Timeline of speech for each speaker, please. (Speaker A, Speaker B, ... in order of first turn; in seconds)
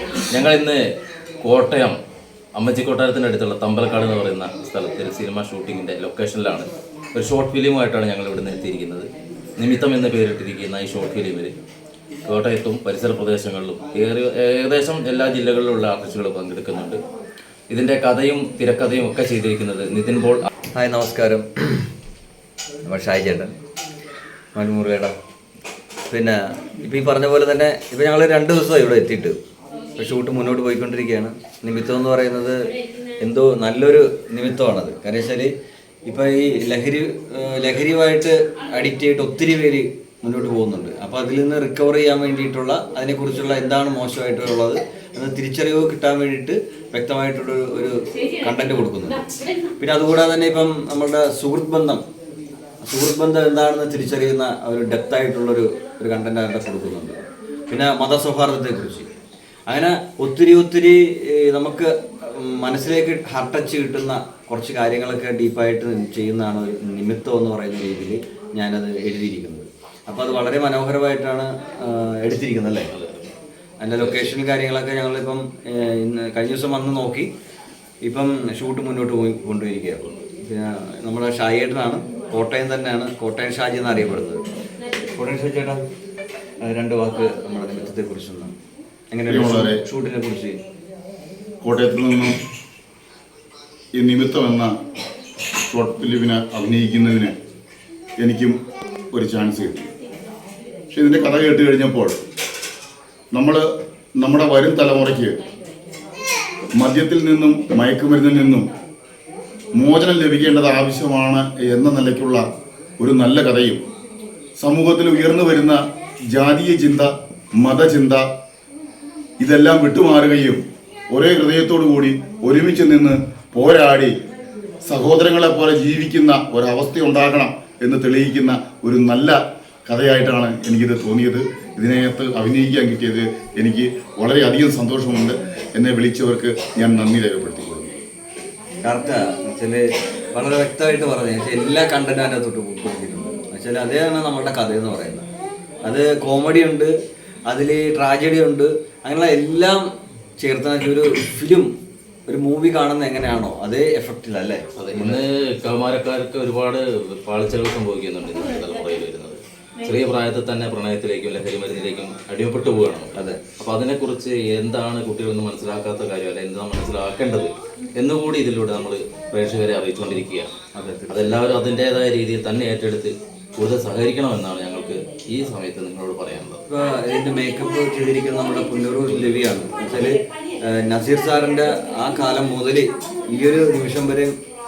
Speaker A: 0.3-0.8, 1.4-2.0, 2.5-11.5, 12.3-17.0, 17.7-20.5, 72.9-73.3, 74.0-74.3, 154.8-170.5, 171.1-176.6
Speaker B: 20.7-21.9, 22.9-23.5, 24.5-25.1, 26.1-29.4, 30.0-32.5, 33.2-35.5, 36.0-49.2, 49.8-52.0, 52.8-57.2, 57.7-59.1, 59.7-72.9, 73.8-77.3, 78.0-84.4, 85.2-85.8, 86.6-88.5, 89.1-90.6, 138.8-139.8, 140.3-145.2, 145.8-146.9, 147.5-149.8, 150.4-151.7, 152.3-155.2, 163.1-163.4, 170.7-171.6, 176.7-184.3
Speaker C: 89.3-89.8, 91.6-92.3, 93.9-94.7, 95.7-97.3, 98.2-98.6, 99.1-99.8, 100.9-102.2, 103.3-103.7, 104.2-105.4, 106.8-108.7, 109.8-112.5, 113.0-113.8, 114.6-118.3, 119.4-120.6, 121.1-124.1, 124.8-137.9